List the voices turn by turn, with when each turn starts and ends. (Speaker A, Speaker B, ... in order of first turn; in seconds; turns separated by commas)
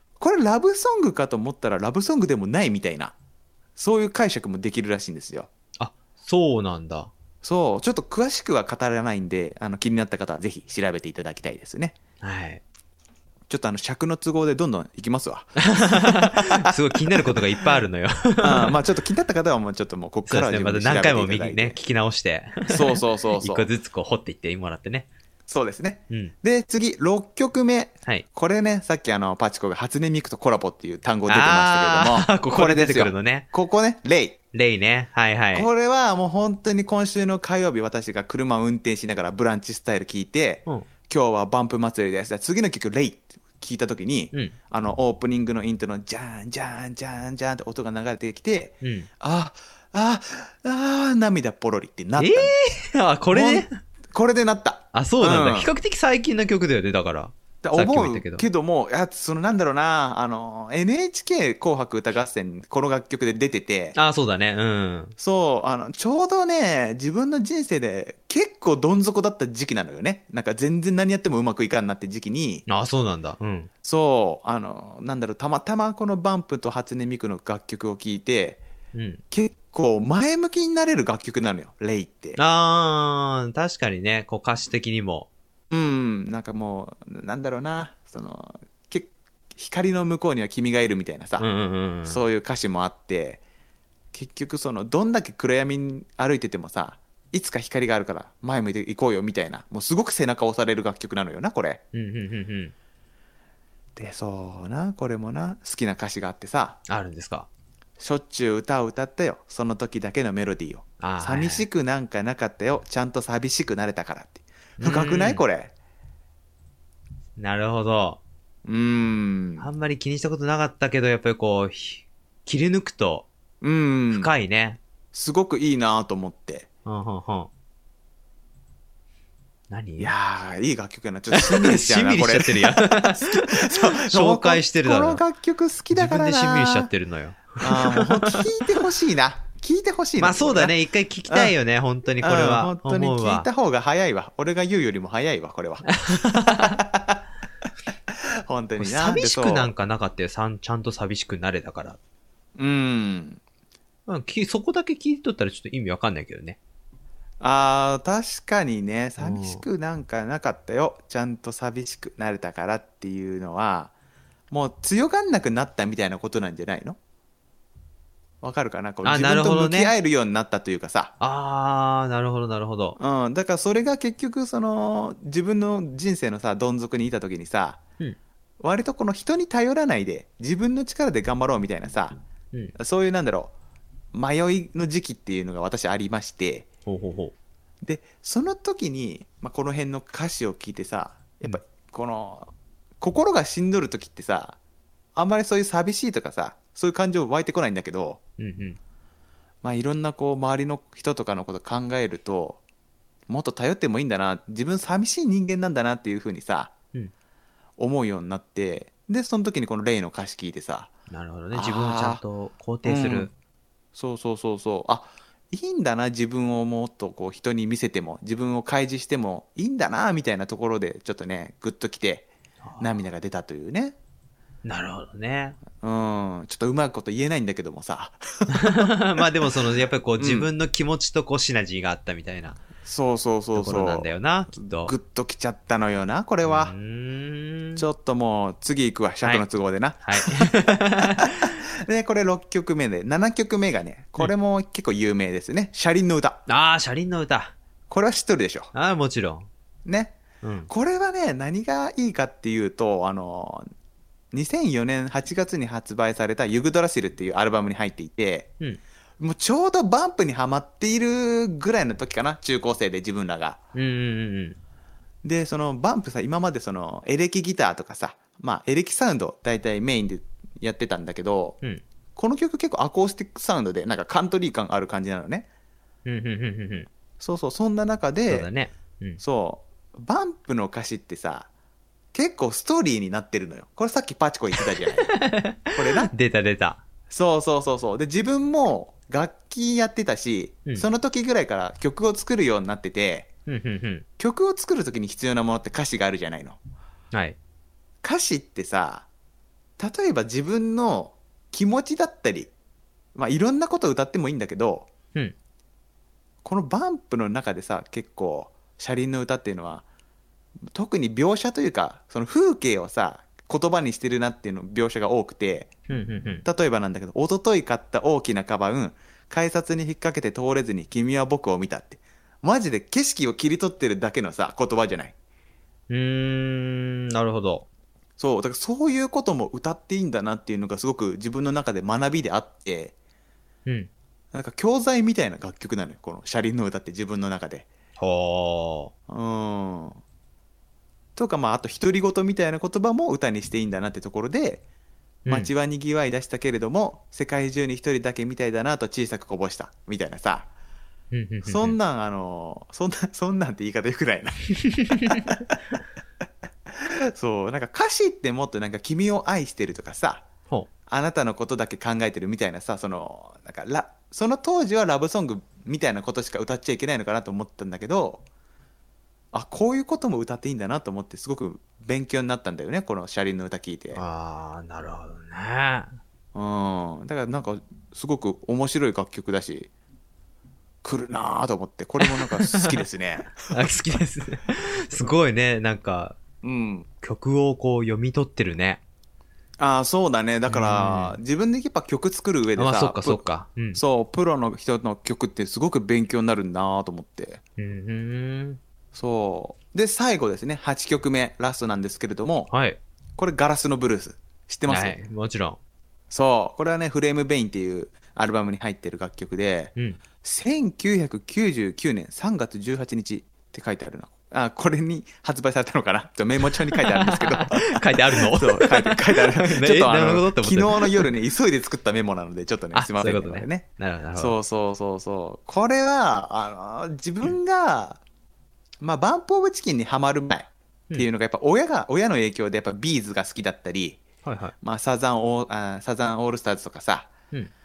Speaker A: 0.2-3.1, Speaker A: 3.8-5.5, Speaker B: 5.8-7.1, Speaker A: 7.4-12.0, Speaker B: 12.2-12.6, Speaker A: 13.5-17.4, Speaker B: 15.7-18.8, Speaker A: 18.4-21.8, Speaker B: 20.3-25.1, Speaker A: 22.7-23.7, Speaker A: 25.5-34.4, Speaker B: 31.3-33.5, Speaker B: 34.5-35.7, Speaker A: 35.5-52.5, Speaker B: 48.8-49.1, Speaker B: 52.2-53.7, Speaker A: 53.3-55.7, Speaker B: 54.9-58.5, Speaker A: 57.6-64.0, Speaker B: 63.9-65.1, Speaker A: 65.2-72.6, Speaker B: 72.7-73.7, Speaker A: 73.8-78.6, Speaker B: 78.9-79.2, Speaker A: 79.3-82.4, Speaker B: 82.4-85.3, Speaker A: 85.7-91.5, Speaker B: 91.4-92.2, Speaker A: 92.0-93.4, Speaker A: 94.1-101.8, Speaker B: 101.9-102.7, Speaker A: 104.0-106.8, Speaker B: 106.9-107.5, Speaker A: 108.0-115.7, Speaker B: 111.0-111.7, Speaker B: 114.8-115.4, Speaker B: 117.4-118.2, Speaker A: 118.6-119.7, Speaker B: 119.6-123.3, Speaker A: 123.6-124.3, Speaker B: 124.1-124.8, Speaker A: 125.1-126.7, Speaker B: 126.8-127.5, Speaker B: 129.7-130.1, Speaker A: 130.0-136.9, Speaker B: 131.3-135.2, Speaker B: 135.9-138.4, Speaker A: 137.6-140.7, Speaker B: 140.2-143.5, Speaker A: 141.3-141.5, Speaker A: 142.2-147.2, Speaker B: 145.9-146.8, Speaker A: 148.1-149.7, Speaker B: 148.8-152.0, Speaker A: 152.6-153.4, Speaker B: 154.1-156.6, Speaker A: 157.4-163.9, Speaker B: 159.2-159.6, Speaker A: 164.5-167.0, Speaker A: 168.4-171.1, Speaker B: 169.0-169.9, Speaker B: 171.2-173.0, Speaker A: 173.0-177.8, Speaker A: 178.6-182.2, Speaker A: 182.8-183.5, Speaker A: 184.1-186.7, Speaker B: 186.8-187.3, Speaker A: 187.8-194.6, Speaker A: 195.1-198.2, Speaker B: 198.4-198.8, Speaker A: 199.6-202.6, Speaker A: 203.3-206.7, Speaker A: 207.8-210.9, Speaker B: 211.1-213.3, Speaker A: 211.5-212.2, Speaker A: 212.8-213.3, Speaker A: 213.9-223.9, Speaker B: 222.6-222.9, Speaker B: 224.6-225.6, Speaker A: 225.8-229.5, Speaker B: 228.5-232.6, Speaker A: 230.2-230.5, Speaker A: 232.8-236.7, Speaker B: 233.5-234.9, Speaker B: 236.4-237.8, Speaker A: 237.8-246.4, Speaker B: 240.0-241.6, Speaker B: 246.5-247.5, Speaker A: 247.9-248.7, Speaker B: 248.7-249.5, Speaker A: 249.8-253.7, Speaker B: 250.4-250.7, Speaker A: 254.3-258.5, Speaker A: 259.2-263.6, Speaker B: 263.7-264.6, Speaker A: 265.2-271.6, Speaker A: 272.1-275.5, Speaker B: 276.0-276.9, Speaker A: 277.2-278.5, Speaker B: 278.3-279.2, Speaker A: 279.2-281.5, Speaker A: 282.1-285.1, Speaker B: 284.8-286.8, Speaker A: 285.7-286.1, Speaker A: 287.1-293.3, Speaker B: 293.5-294.0, Speaker A: 294.2-296.6, Speaker B: 297.1-297.4, Speaker A: 298.0-299.1, Speaker A: 299.8-302.5, Speaker A: 303.1-304.9, Speaker A: 306.4-309.8, Speaker A: 310.7-315.7, Speaker B: 315.9-316.4, Speaker A: 316.4-325.1, Speaker B: 325.9-327.6, Speaker A: 328.2-332.9, Speaker A: 334.3-337.7, Speaker B: 338.0-338.9, Speaker A: 339.1-340.0, Speaker A: 341.1-344.6, Speaker B: 345.2-345.5, Speaker A: 345.2-350.5, Speaker B: 351.1-351.8, Speaker A: 351.4-355.5, Speaker B: 354.6-355.4, Speaker A: 356.7-360.2, Speaker A: 360.9-368.2, Speaker A: 369.3-374.0, Speaker B: 373.9-376.0, Speaker A: 376.3-379.7, Speaker A: 380.8-383.6, Speaker B: 382.0-382.7, Speaker B: 383.4-386.2, Speaker A: 386.4-386.9, Speaker B: 387.0-388.8, Speaker A: 389.6-393.2, Speaker B: 390.5-391.2, Speaker B: 392.6-393.8, Speaker A: 393.7-397.4, Speaker B: 397.6-398.6, Speaker A: 398.9-402.5, Speaker B: 402.5-402.8, Speaker A: 403.2-404.9, Speaker B: 404.7-405.6, Speaker A: 406.1-428.0, Speaker B: 416.4-421.1, Speaker B: 422.7-424.4, Speaker A: 428.8-434.0, Speaker B: 434.2-434.5, Speaker A: 434.6-437.1